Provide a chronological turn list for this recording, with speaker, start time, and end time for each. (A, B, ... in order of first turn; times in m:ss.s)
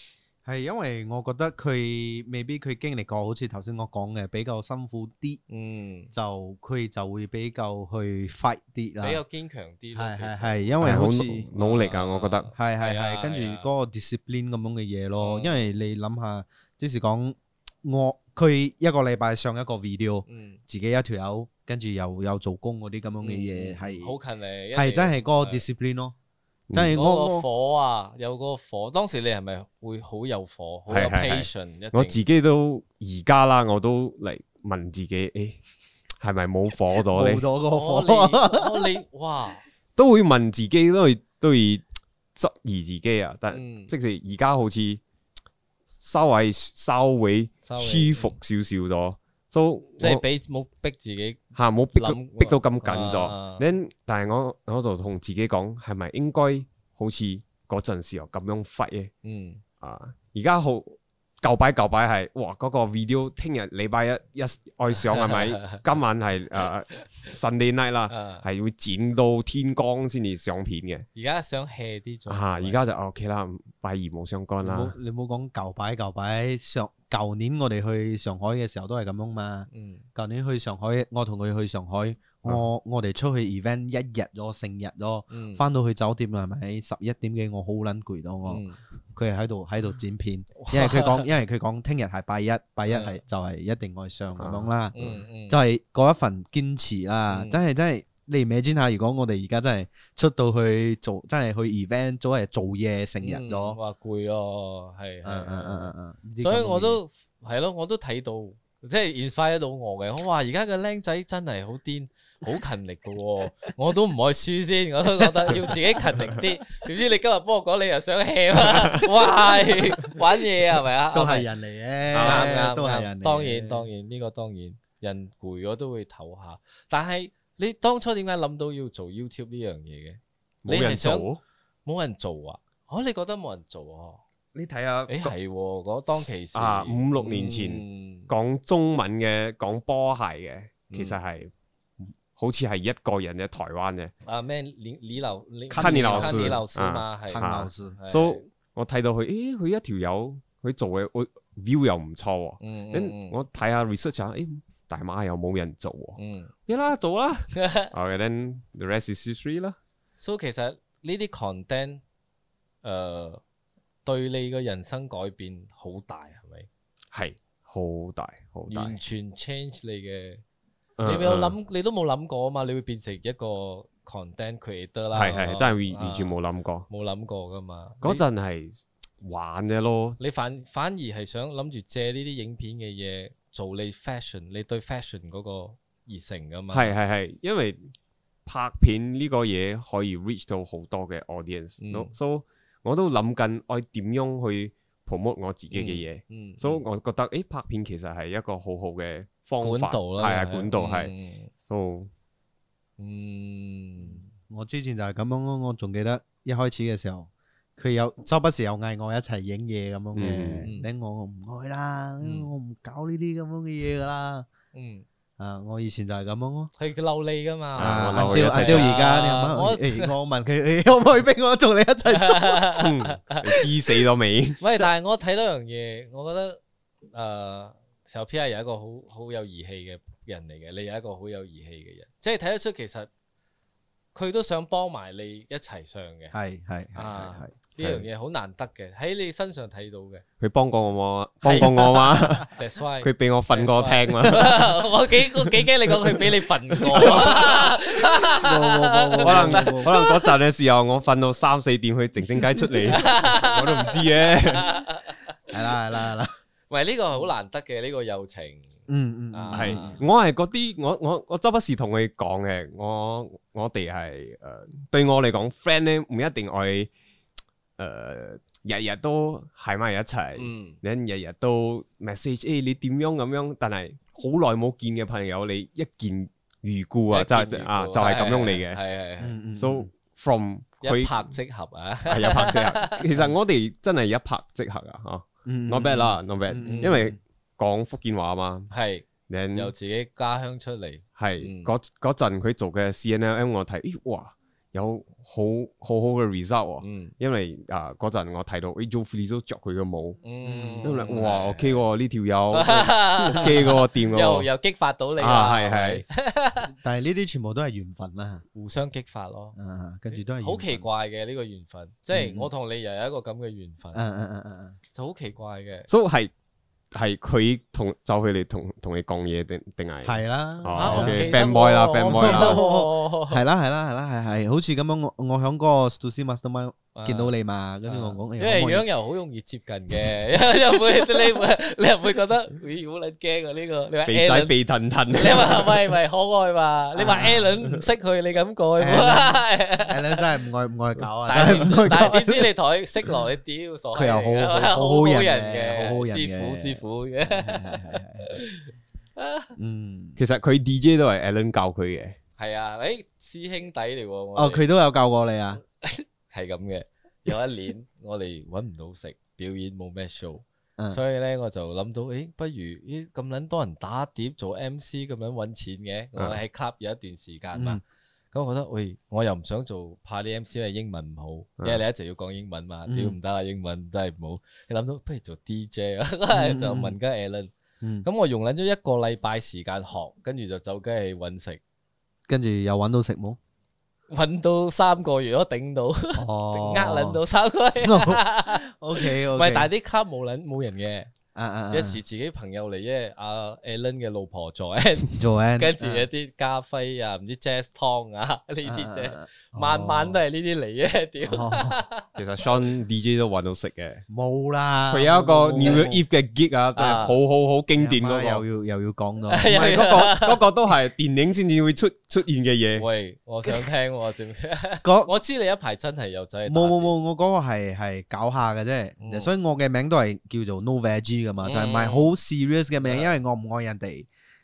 0:00.4-0:05.4 A
0:05.5-0:06.1 B
0:06.1-0:09.2 A
0:09.0-0:13.7 B
0:10.0-0:11.5 A
0:10.8-0:12.5 C
0:12.6-0:24.2 A
0:15.2-0:15.7 B
0:20.3-0:20.6 B
0:23.2-0:25.6 B
0:24.8-0:26.1 A
0:26.7-0:27.0 C
0:26.7-0:27.5 A
0:26.9-0:32.2 B
0:30.9-0:35.6 C
0:36.2-0:37.4 C
0:37.1-0:38.9 A
0:37.7-0:39.6 B
0:40.0-0:41.8 C
0:42.4-0:45.0 C
0:43.5-0:43.9 B
0:45.9-0:50.2 C
0:47.6-0:48.4 B
0:50.0-0:53.6 B
0:51.6-0:59.1 C
0:59.2-0:59.6 B
0:59.8-1:11.1 C
1:05.0-1:05.8 B
1:08.1-1:08.4 B
1:11.2-1:12.8 B
1:12.3-1:15.0 C
1:14.6-1:28.6 A
1:19.7-1:20.0 B
1:25.3-1:25.6 B
1:28.5-1:28.8 B
1:29.2-1:35.0 A
1:30.6-1:31.3 B
1:32.9-1:33.2 B
1:34.4-1:35.1 C
1:35.0-1:35.6 B
1:35.5-1:43.8 A
1:37.3-1:37.6 B
1:43.2-2:01.5 B
1:45.2-1:47.0 A
1:55.3-1:55.8 A
1:58.8-1:59.0 C
2:01.1-2:03.9 A
2:02.1-2:02.5 C
2:02.2-2:11.3 B
2:10.6-2:11.4 C
2:11.9-2:14.2 B
2:14.6-2:15.4 C
2:15.1-2:18.3 B
2:16.1-2:21.5 C
2:20.9-2:21.2 B
2:22.4-2:24.1 C
2:24.2-2:28.4 B
2:25.7-2:26.6 A
2:25.8-2:39.8 C
2:27.3-2:28.0 A
2:32.6-2:33.4 B
2:36.2-2:36.5 B
2:37.6-2:37.9 B
2:40.2-2:42.0 B
2:42.8-2:43.4 B
2:44.0-2:46.7 B
2:47.1-2:49.0 C
2:48.7-2:50.4 B
2:51.0-2:51.6 C
2:51.0-2:56.3 B
2:55.1-2:56.9 C
2:56.9-2:58.2 B
2:58.0-3:00.2 C
3:00.2-3:06.9 B
3:06.7-3:07.9 C
3:08.5-3:22.1 C
3:11.8-3:12.1 B
3:15.7-3:16.8 B
3:19.6-3:21.5 B
3:23.0-3:24.3 B
3:24.5-3:34.5 A
3:30.2-3:30.7 C
3:32.2-3:32.5 B
3:34.7-3:35.0 B
3:35.4-3:36.7 A
3:36.8-3:40.1 B
3:37.8-3:38.9 C
3:37.8-3:42.8 A
3:42.1-3:43.7 B
3:42.8-3:44.6 C
3:44.6-3:46.6 B
3:47.1-3:53.1 B
3:54.2-3:56.4 B
3:56.3-3:57.5 A
3:57.0-4:00.2 B
3:57.8-3:58.1 C
4:00.4-4:04.8 C
4:01.4-4:02.4 A
4:01.4-4:10.2 B
4:06.9-4:07.7 C
4:06.9-4:07.7 A
4:08.4-4:09.9 A
4:09.2-4:14.7 C
4:12.9-4:15.8 B
4:15.5-4:16.4 A
4:16.7-4:18.7 B
4:18.9-4:20.0 A
4:19.3-4:20.0 B
4:19.5-4:26.9 C
4:27.8-4:38.8 C
4:30.4-4:30.8 B
4:37.1-4:39.4 B
4:39.2-4:39.9 A
4:39.6-4:41.3 C
4:40.8-4:43.2 B
4:42.1-4:48.7 C
4:45.4-4:47.2 A
4:46.6-4:47.1 B
4:48.7-4:51.7 B
4:49.3-4:49.7 C
4:51.2-5:00.2 C
4:56.8-4:57.1 B
5:00.2-5:01.8 B
5:00.4-5:01.1 A
5:00.8-5:04.5 C
5:02.5-5:06.7 B
5:03.2-5:03.7 A
5:05.2-5:06.0 C
5:06.6-5:08.4 A
5:08.6-5:09.6 B
5:09.6-5:10.9 A
5:10.4-5:14.0 B
5:12.1-5:12.5 A
5:13.9-5:14.8 A
5:14.9-5:15.9 B
5:15.9-5:16.3 C
5:16.9-5:22.6 C
5:20.0-5:21.4 A
5:20.8-5:23.4 B
5:22.0-5:28.8 A
5:26.9-5:27.3 B
5:27.9-5:34.6 B
5:34.1-5:35.9 C
5:35.1-5:40.2 B
5:37.0-5:37.6 A
5:38.8-5:42.5 A
5:41.2-5:48.6 B
5:43.9-5:48.3 A
5:49.2-5:49.5 B
5:49.6-5:50.2 A
5:50.2-5:52.2 C
5:52.4-5:54.7 B
5:54.4-5:55.6 A
5:55.8-6:07.8 B
6:07.5-6:07.8 A
6:08.3-6:17.5 B
6:12.9-6:13.2 A
6:16.3-6:17.0 A
6:17.8-6:18.1 A
6:18.0-6:21.6 B
6:22.3-6:23.4 A
6:24.1-6:31.1 B
6:26.2-6:27.2 A
6:27.8-6:29.7 A
6:31.4-6:32.0 A
6:31.7-6:42.0 B
6:35.2-6:36.1 A
6:38.6-6:40.2 A
6:41.2-6:41.8 A
6:42.2-6:44.0 C
6:44.1-6:46.0 A
6:44.9-6:48.4 C
6:46.8-6:47.2 B
6:47.8-6:49.5 A
6:49.3-6:50.4 B
6:49.5-6:52.9 C
6:52.8-6:56.9 B
6:54.8-6:55.1 A
6:56.5-7:04.1 A
6:59.0-6:59.3 B
7:01.4-7:02.1 B
7:02.8-7:03.1 B